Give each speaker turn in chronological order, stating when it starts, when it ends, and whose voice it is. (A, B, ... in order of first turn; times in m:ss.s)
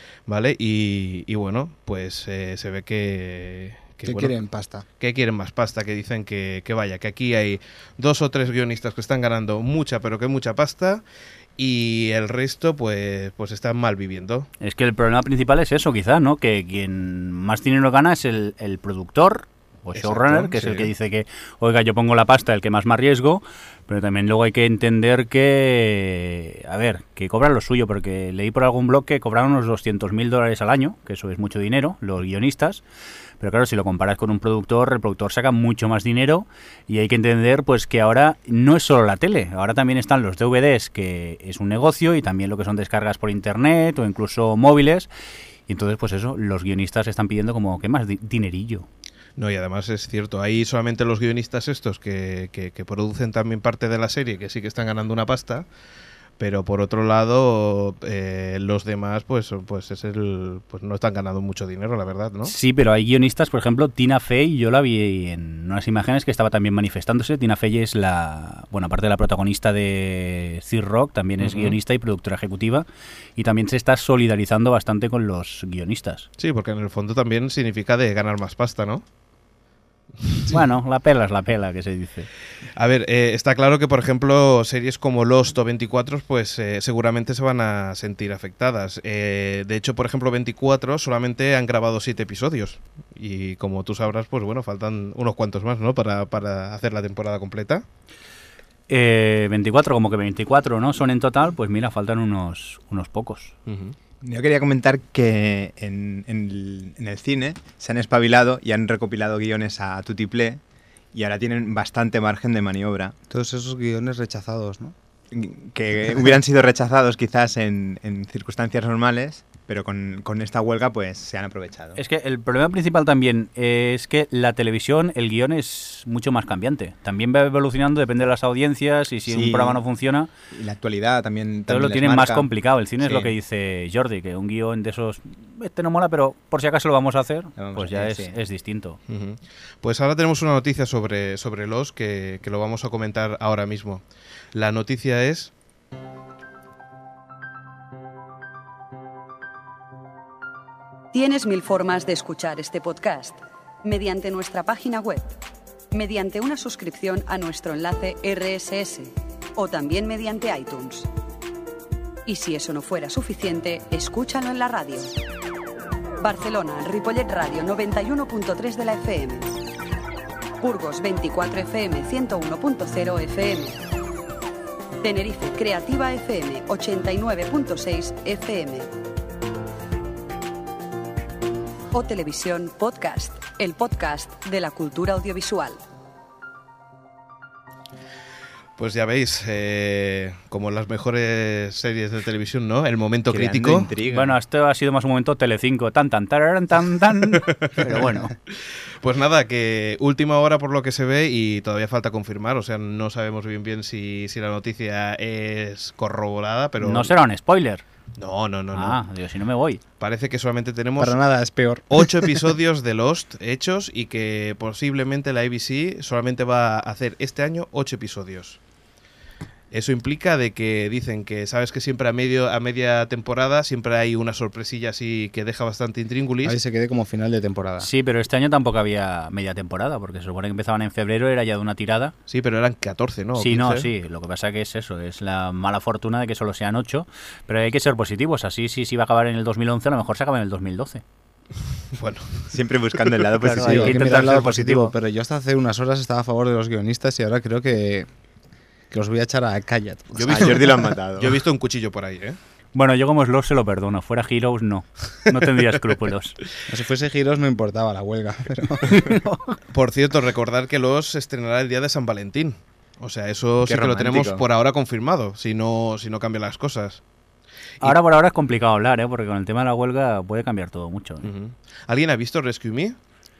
0:00.3-0:04.3 A
0:04.0-0:04.8 B
0:05.0-0:11.0 A
0:11.6-0:14.5 A
0:14.6-0:32.8 C
0:19.9-0:20.9 A
0:33.4-0:45.1 C
0:45.7-0:48.9 C
0:49.4-0:55.7 A
0:56.4-1:02.5 A
1:02.4-1:12.9 C
1:11.4-1:11.8 A
1:13.4-1:16.3 C
1:16.4-1:19.0 A
1:20.5-1:22.3 C
1:22.8-1:37.8 A
1:38.9-1:43.5 C
1:43.7-1:43.9 A
1:44.2-1:50.6 D
1:51.1-1:53.2 D
1:53.3-1:54.9 B
1:55.3-2:02.0 D
2:02.0-2:10.3 C
2:09.3-2:09.8 D
2:10.5-2:13.3 D
2:11.7-2:19.0 C
2:17.6-2:18.3 D
2:19.1-2:24.0 A
2:24.5-2:25.5 A
2:31.1-2:35.4 E
2:35.9-2:41.1 E
2:42.2-2:45.1 E
2:46.2-2:49.6 E
2:50.6-2:53.8 E
2:55.0-2:58.9 E
3:01.9-3:05.8 E
3:08.8-3:13.9 A
3:13.3-3:14.4 D
3:14.1-3:18.3 C
3:17.4-3:17.8 A
3:19.0-3:27.1 A
3:26.8-3:27.8 C
3:28.2-3:29.0 A
3:28.7-3:29.8 C
3:30.0-3:31.2 A
3:31.0-3:32.5 B
3:31.9-3:38.6 A
3:39.7-3:46.6 A
3:46.4-3:47.9 B
3:47.8-3:52.1 C
3:52.3-3:53.9 A
3:53.4-4:01.0 C
4:01.9-4:02.5 A
4:02.5-4:04.5 D
4:03.4-4:04.9 C
4:03.5-4:08.1 B
4:08.9-4:10.5 B
4:10.1-4:12.4 A
4:10.3-4:11.4 D
4:12.7-4:16.4 C
4:16.7-4:19.1 B
4:18.9-4:19.6 C
4:19.7-4:27.0 A
4:23.6-4:24.4 D
4:27.8-4:31.3 C
4:31.2-4:33.0 A